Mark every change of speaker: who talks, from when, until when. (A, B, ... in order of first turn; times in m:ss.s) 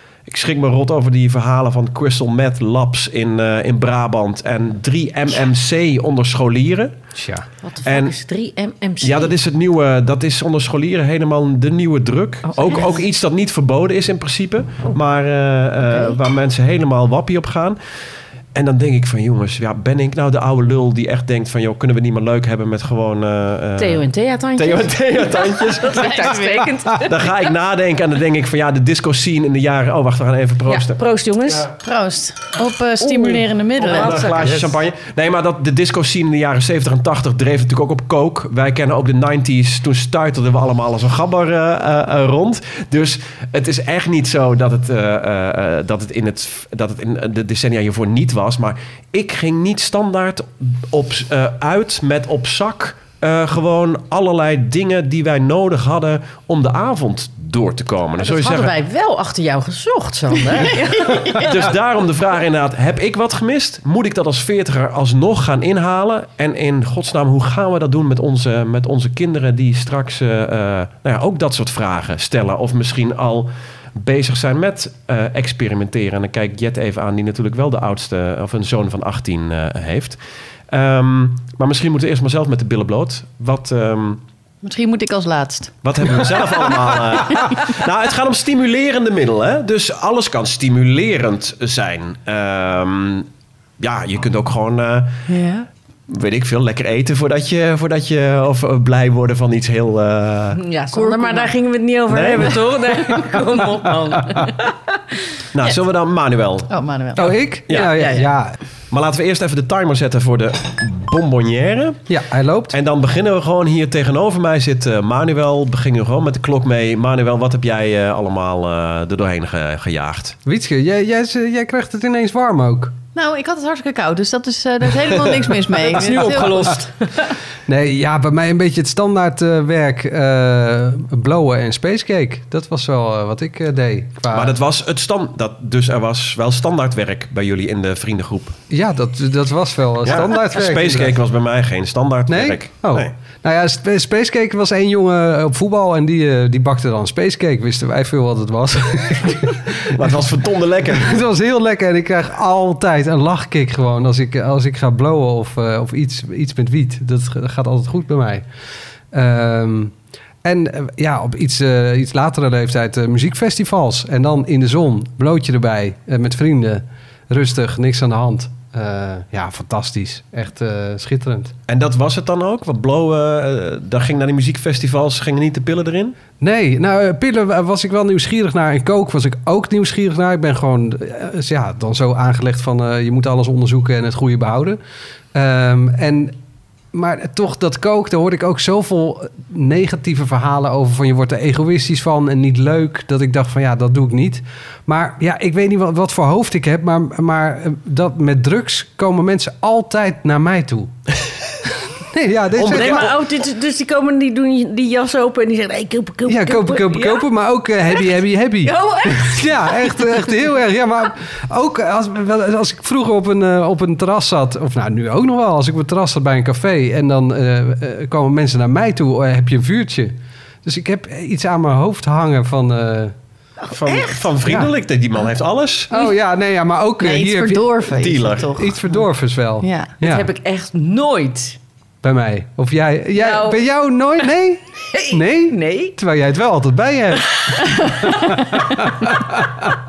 0:00.3-0:07.0 A
0:07.2-0:07.5 B
0:07.6-0:09.3 C
0:07.8-0:08.2 A
0:09.0-0:17.8 A
0:12.5-0:13.0 C
0:15.8-0:16.2 C
0:18.6-0:26.4 A
0:23.8-0:27.5 C
0:26.0-0:26.6 D
0:27.0-0:31.0 A
0:30.7-0:31.7 C
0:31.8-0:34.1 D
0:33.8-0:58.7 A
0:33.8-0:34.6 C
0:34.4-0:34.7 B
0:58.2-1:01.7 C
1:01.3-1:20.2 A
1:20.7-1:24.2 A
1:24.6-1:25.8 D
1:25.8-1:33.3 A
1:33.8-1:35.2 A
1:35.3-1:35.7 D
1:36.1-1:40.6 A
1:40.6-1:45.0 C
1:40.9-1:41.5 D
1:42.1-1:42.7 A
1:45.5-1:46.7 A
1:46.7-1:47.4 D
1:47.2-1:48.6 B
1:47.7-1:47.9 A
1:47.7-1:48.3 C
1:48.9-1:52.0 A
1:52.1-1:52.8 B
1:52.7-2:00.4 A
2:00.5-2:03.0 B
2:03.2-2:06.8 D
2:06.0-2:07.3 C
2:07.7-2:14.6 B
2:14.3-2:18.6 A
2:18.7-2:21.2 B
2:20.0-2:23.1 A
2:22.3-2:30.1 B
2:29.9-2:31.2 A
2:30.9-2:38.4 B
2:39.1-2:51.5 B
2:51.7-2:56.2 A
2:56.4-3:04.8 B
3:05.3-3:06.4 B
3:06.9-3:20.9 B
3:22.1-3:23.1 B
3:22.6-3:23.1 A
3:22.6-3:27.3 C
3:26.3-3:43.1 B
3:27.9-3:30.2 C
3:43.7-3:44.3 C
3:43.7-3:45.9 A
3:44.4-3:44.7 B
3:45.9-3:47.9 B
3:47.0-3:49.0 D
3:48.0-3:48.5 A
3:48.6-3:50.3 B
3:49.6-3:49.9 D
3:50.0-3:51.6 C
3:52.0-3:57.9 B
3:53.2-3:53.6 C
3:54.9-3:56.0 C
3:57.3-3:58.8 C
3:58.5-3:59.6 B